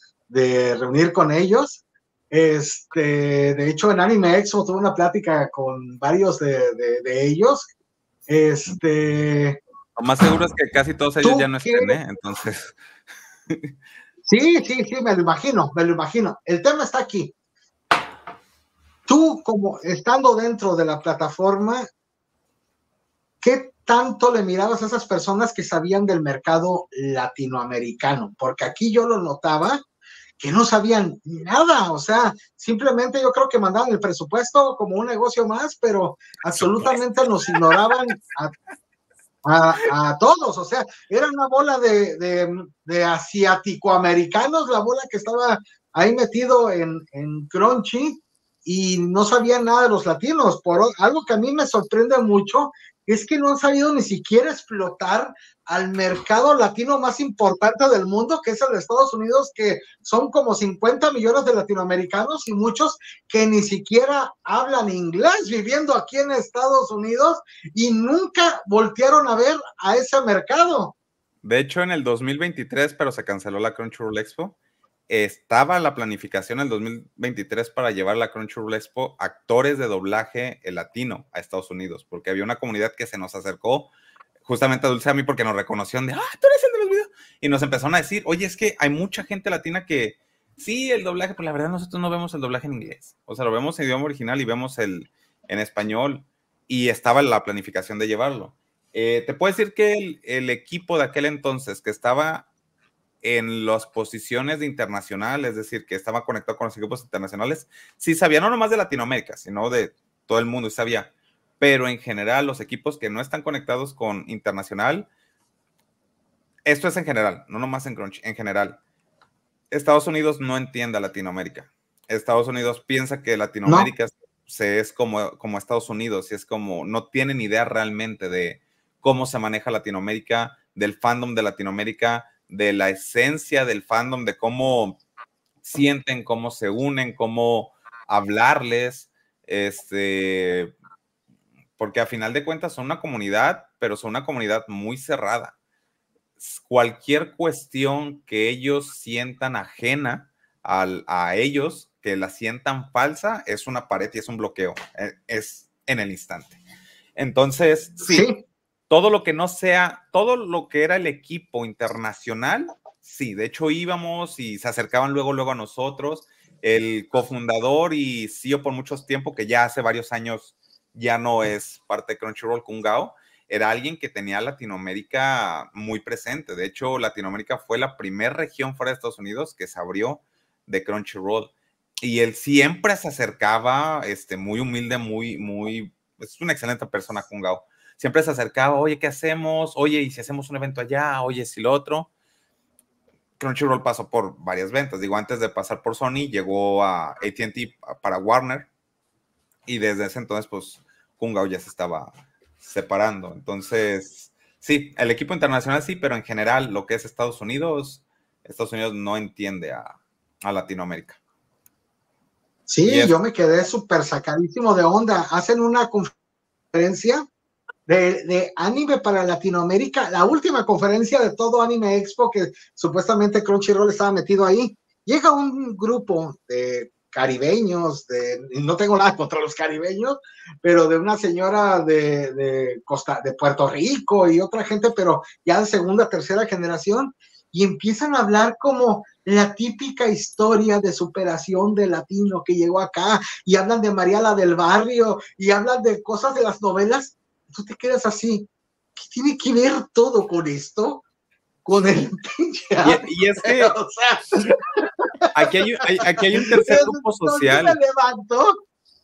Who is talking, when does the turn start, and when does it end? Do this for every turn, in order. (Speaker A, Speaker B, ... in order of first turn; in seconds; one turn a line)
Speaker A: 0.3-7.7
Speaker A: 8.3-9.6
Speaker B: 10.0-12.8
Speaker A: 11.2-12.0
Speaker A: 14.3-17.3
Speaker A: 19.1-21.9
Speaker A: 23.4-29.8
Speaker A: 30.4-38.5
Speaker B: 36.6-37.0
Speaker B: 37.6-37.9
Speaker A: 39.5-71.0
Speaker B: 71.4-74.5
Speaker B: 75.1-83.9
Speaker B: 84.4-102.5
Speaker B: 103.2-115.1
Speaker B: 116.6-118.8
Speaker B: 119.7-135.0
Speaker A: 123.6-123.9
Speaker B: 135.6-140.7
Speaker B: 141.8-145.6
Speaker B: 146.4-156.6
Speaker B: 157.2-158.3
Speaker A: 158.1-158.4
Speaker B: 158.9-192.1
Speaker B: 193.4-198.7
Speaker B: 199.7-211.2
Speaker A: 212.7-216.1
Speaker B: 212.8-213.2
Speaker A: 216.7-217.3
Speaker A: 217.9-248.5
Speaker A: 249.0-251.0
Speaker A: 251.6-258.6
Speaker B: 252.8-253.8
Speaker B: 255.3-257.8